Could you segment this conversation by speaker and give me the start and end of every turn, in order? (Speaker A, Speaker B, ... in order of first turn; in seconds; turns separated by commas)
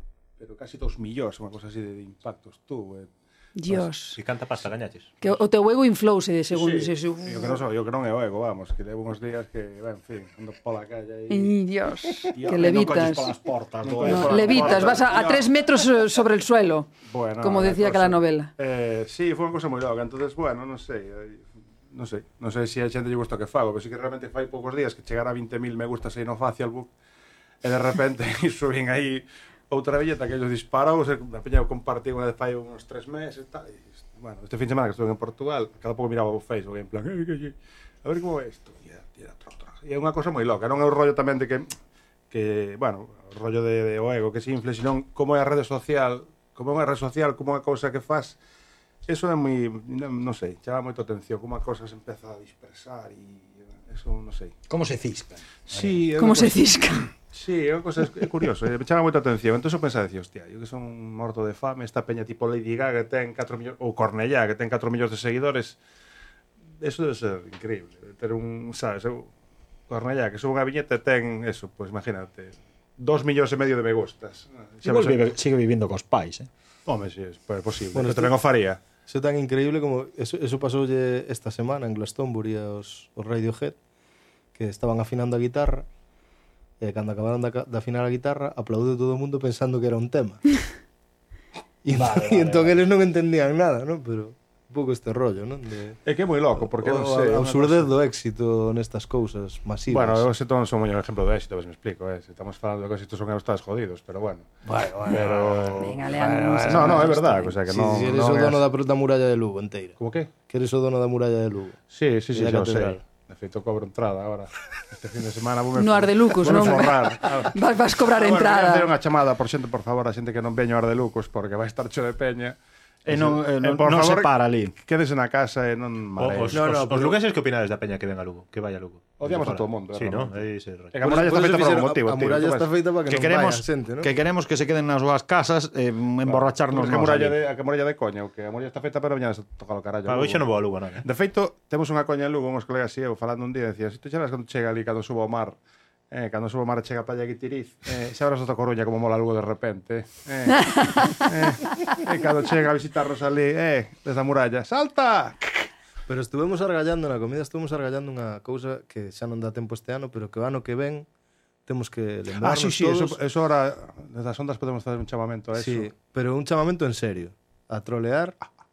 Speaker A: 0.4-3.1, Speaker B: 3.6-4.2, Speaker C: 4.2-5.2, Speaker B: 5.2-7.6, Speaker A: 6.5-11.6, Speaker B: 11.3-13.3, Speaker D: 12.3-15.1, Speaker A: 13.8-15.6, Speaker B: 14.0-18.5, Speaker A: 17.1-26.9, Speaker A: 27.6-41.7, Speaker A: 42.3-48.4, Speaker A: 49.1-54.5, Speaker D: 54.7-56.0, Speaker A: 55.7-56.6, Speaker B: 56.2-57.1, Speaker A: 57.3-65.8, Speaker A: 66.8-69.3, Speaker A: 69.9-75.2, Speaker D: 74.8-76.5, Speaker A: 76.9-78.8, Speaker E: 77.9-78.3, Speaker E: 79.1-83.8, Speaker E: 84.5-85.9, Speaker E: 86.8-90.6, Speaker E: 91.8-96.0, Speaker D: 91.9-92.8, Speaker A: 96.0-97.9, Speaker E: 96.6-100.3, Speaker A: 99.9-104.5, Speaker D: 104.7-105.7, Speaker A: 105.1-108.6, Speaker B: 105.8-107.5, Speaker E: 106.7-107.0, Speaker E: 107.7-111.8, Speaker A: 110.0-110.3, Speaker A: 111.9-126.7, Speaker E: 112.3-113.0, Speaker B: 115.8-118.9, Speaker D: 123.1-124.7, Speaker C: 126.2-130.9, Speaker E: 126.5-127.2, Speaker A: 129.2-130.4, Speaker A: 130.9-132.7, Speaker E: 131.0-134.1, Speaker D: 133.1-137.4, Speaker A: 136.2-140.4, Speaker C: 140.1-141.1, Speaker A: 141.0-145.6, Speaker A: 146.1-155.7, Speaker E: 156.1-161.1, Speaker E: 161.7-163.2, Speaker A: 162.4-165.9, Speaker E: 165.6-168.4